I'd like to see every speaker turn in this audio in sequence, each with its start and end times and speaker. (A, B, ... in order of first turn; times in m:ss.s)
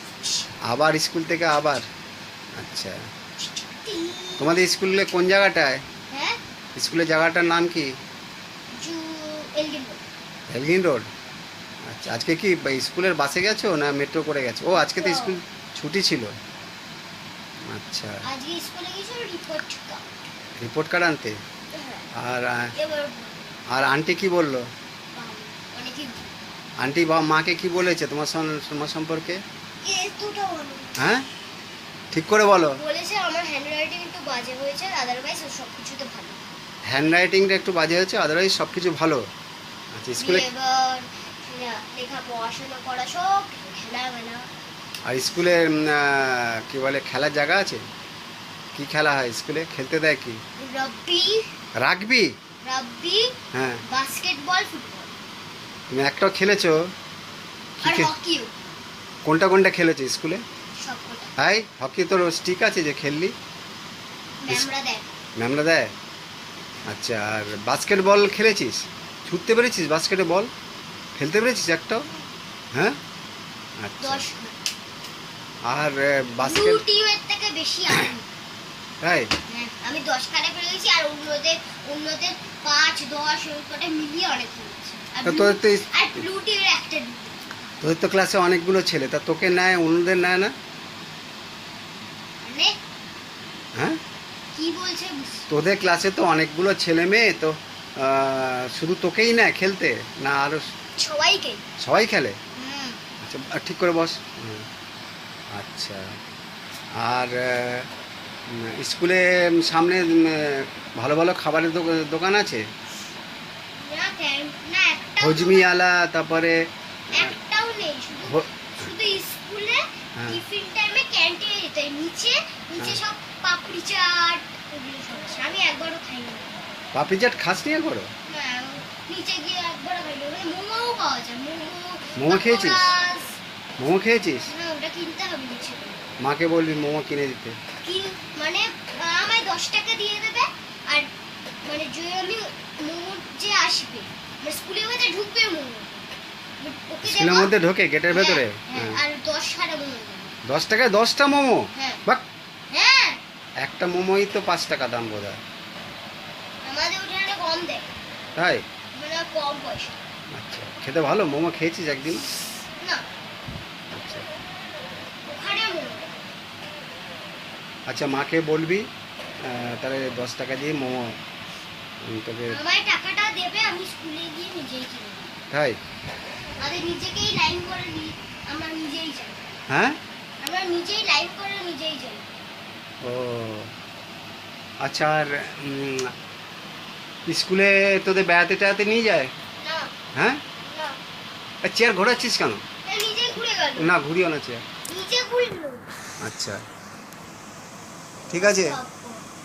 0:00.6-0:01.8 A
0:02.6-0:03.0 A
0:03.4-0:04.5 B
0:04.4-0:05.8 A
0:06.1-0:06.4 B
0:06.8-0:07.9 A
0:08.8-0:10.0 B
0:10.5-0:11.1 A
0:11.8-0:16.3 A
0:14.9-0:15.4 B
0:17.7-0:18.2 A
0:18.2-0:20.1 B
0:20.6-0:21.4 A
0:21.7-0:22.1 B
0:22.1-0:22.7 A
0:22.7-0:23.6 B
0:23.7-0:24.6 A
0:25.1-0:26.5 B
0:26.8-0:29.4 A
0:29.8-0:31.1 B
0:31.0-0:31.2 A
0:32.1-0:32.8 A
0:32.8-0:36.4 B
0:36.9-0:39.2 A
0:39.9-0:40.4 A
0:40.2-0:44.5 B
0:45.1-0:47.8 A
0:48.7-0:50.4 A
0:50.6-0:51.5 B
0:51.8-0:52.3 A
0:52.6-0:53.3 B
0:53.5-0:53.8 A
0:53.9-0:55.1 B
0:55.9-0:56.9 A
0:57.8-0:58.1 A
0:57.8-0:58.5 B
0:59.2-1:00.4 A
1:00.8-1:01.3 B
1:01.4-1:03.3 A
1:04.4-1:05.1 B
1:05.4-1:05.9 A
1:06.9-1:10.5 A
1:11.2-1:12.0 A
1:12.7-1:13.0 A
1:13.8-1:14.2 A
1:14.0-1:14.6 B
1:15.7-1:16.8 A
1:16.4-1:18.2 B
1:19.0-1:19.3 A
1:19.5-1:27.4 B
1:25.2-1:25.9 A
1:27.8-1:30.5 A
1:32.4-1:32.7 B
1:34.5-1:35.5 B
1:35.5-1:40.6 A
1:41.0-1:41.6 B
1:41.8-1:42.4 A
1:42.6-1:43.0 B
1:43.2-1:44.6 A
1:45.5-1:46.2 A
1:47.0-1:47.9 A
1:48.5-1:52.6 A
1:53.7-1:55.7 B
1:55.2-1:57.3 A
1:57.1-2:06.6 B
2:06.9-2:08.1 A
2:08.2-2:13.4 B
2:12.2-2:12.9 A
2:13.8-2:14.5 A
2:14.5-2:16.0 B
2:16.2-2:17.6 A
2:17.8-2:21.1 B
2:21.6-2:27.5 B
2:27.0-2:29.0 A
2:28.1-2:30.4 B
2:30.4-2:32.2 A
2:31.7-2:32.0 B
2:32.7-2:33.2 B
2:33.6-2:35.4 A
2:36.6-2:37.9 B
2:38.4-2:38.6 A
2:39.0-2:40.0 B
2:40.3-2:42.3 A
2:43.9-2:44.2 A
2:45.2-2:46.1 B
2:47.9-2:48.9 A
2:49.4-2:51.2 A
2:52.0-2:52.6 A
2:52.5-2:55.3 B
2:55.5-2:55.8 A
2:56.6-2:59.5 B
2:59.7-3:00.0 A
3:00.4-3:02.3 B
3:03.0-3:03.7 A
3:04.8-3:06.1 A
3:07.3-3:09.3 A
3:09.6-3:09.9 B
3:10.2-3:10.4 A
3:10.6-3:11.0 B
3:11.6-3:12.6 A
3:12.8-3:13.9 B
3:13.8-3:14.6 A
3:14.9-3:15.9 B
3:16.2-3:16.6 A
3:18.2-3:19.2 B
3:18.3-3:18.8 A